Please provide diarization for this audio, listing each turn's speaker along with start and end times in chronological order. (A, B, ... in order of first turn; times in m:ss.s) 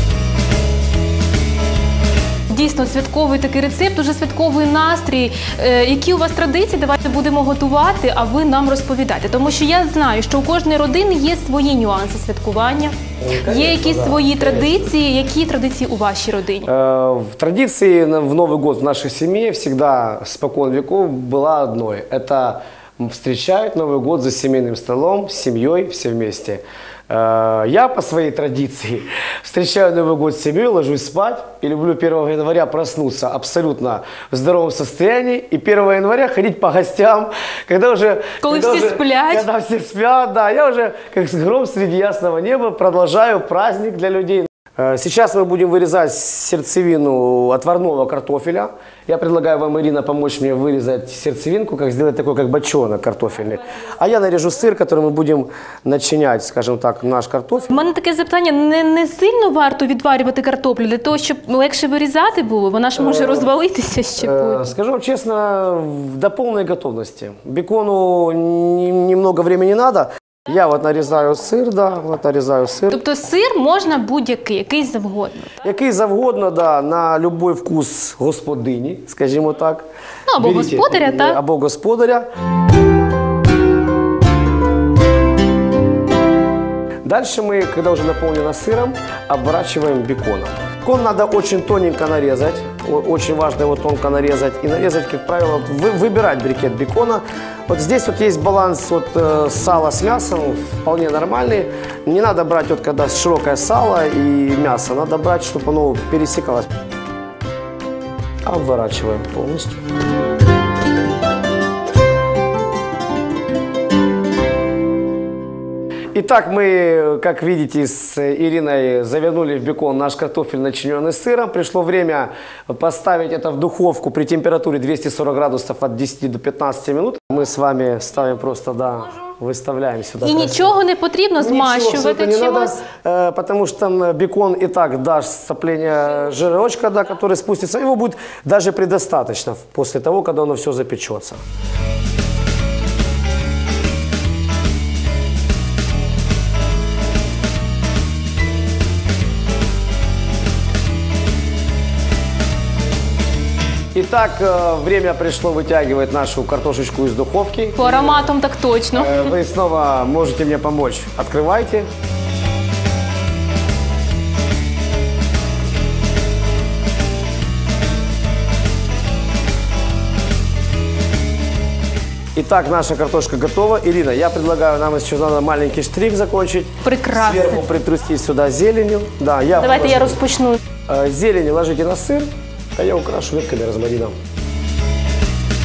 0:02.5-0:16.7 A
0:13.2-0:15.0 B
0:16.6-0:57.8 B
0:38.4-0:39.5 A
0:57.7-1:04.7 A
1:02.9-1:03.5 B
1:04.2-1:13.0 B
1:12.9-1:15.6 A
1:15.6-1:19.9 B
1:20.3-1:21.4 A
1:20.4-1:22.3 B
1:27.0-1:46.7 B
1:48.4-1:49.8 B
1:56.1-2:10.8 B
2:10.2-2:12.8 A
2:11.4-2:21.4 B
2:33.9-2:38.3 B
2:37.8-2:39.3 A
2:38.9-2:41.9 B
2:52.3-3:00.2 B
2:56.8-2:57.6 A
2:59.6-3:00.6 A
3:00.9-3:04.2 B